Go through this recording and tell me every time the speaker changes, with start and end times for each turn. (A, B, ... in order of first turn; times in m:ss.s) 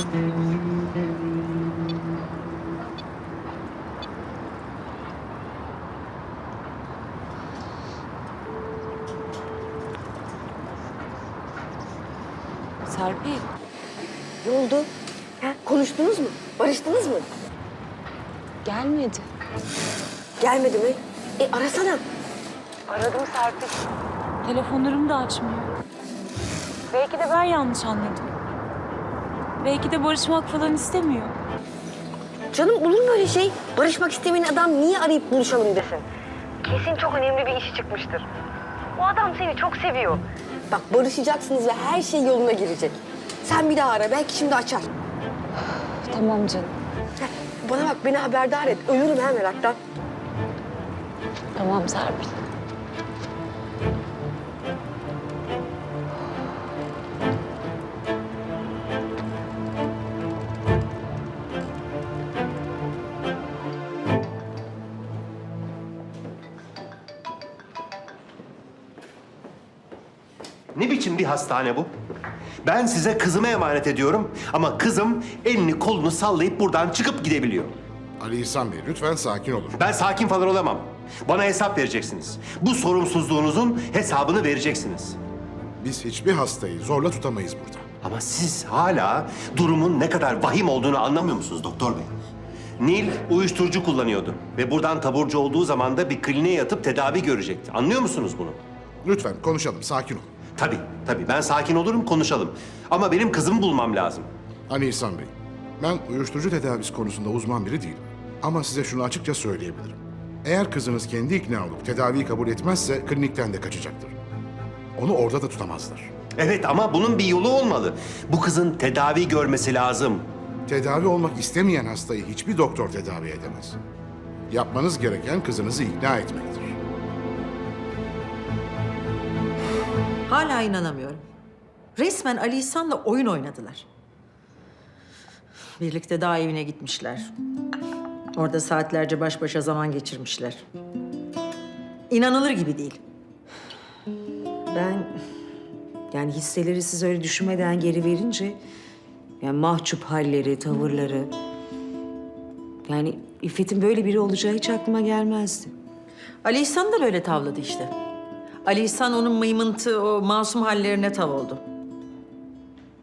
0:12.8-0:13.5 A
0:14.4-0:14.9 B
0:15.4-0:17.3 B
0:18.6-0:19.2 A
0:20.4-0:22.0 B
0:22.9-0:23.6 A
0:24.4-0:25.7 A
0:26.9-0:28.3 A
0:29.6-0:31.3 A
0:32.5-0:36.0 B
0:36.6-0:38.3 B
0:39.0-0:44.9 B
0:46.1-0:46.7 A
0:47.2-0:49.8 B
0:51.6-0:52.3 A
1:10.7-1:11.9 C
1:12.6-1:17.8 C
1:18.2-1:19.8 D
1:19.8-1:25.2 C
1:25.8-1:27.8 D
1:28.0-1:32.1 C
1:32.8-1:38.6 C
1:39.0-1:40.3 D
1:40.6-1:44.3 C
1:44.7-1:54.2 D
1:55.0-1:56.1 D
1:56.4-2:00.3 C
2:00.7-2:03.8 D
2:04.5-2:06.8 D
2:10.3-2:11.2 E
2:12.0-2:13.8 E
2:15.8-2:17.3 E
2:18.3-2:20.6 E
2:22.1-2:23.0 E
2:24.7-2:25.1 F
2:26.1-2:28.6 F
2:29.4-2:31.3 F
2:32.8-2:35.7 F
2:36.4-2:37.9 E
2:38.6-2:41.6 E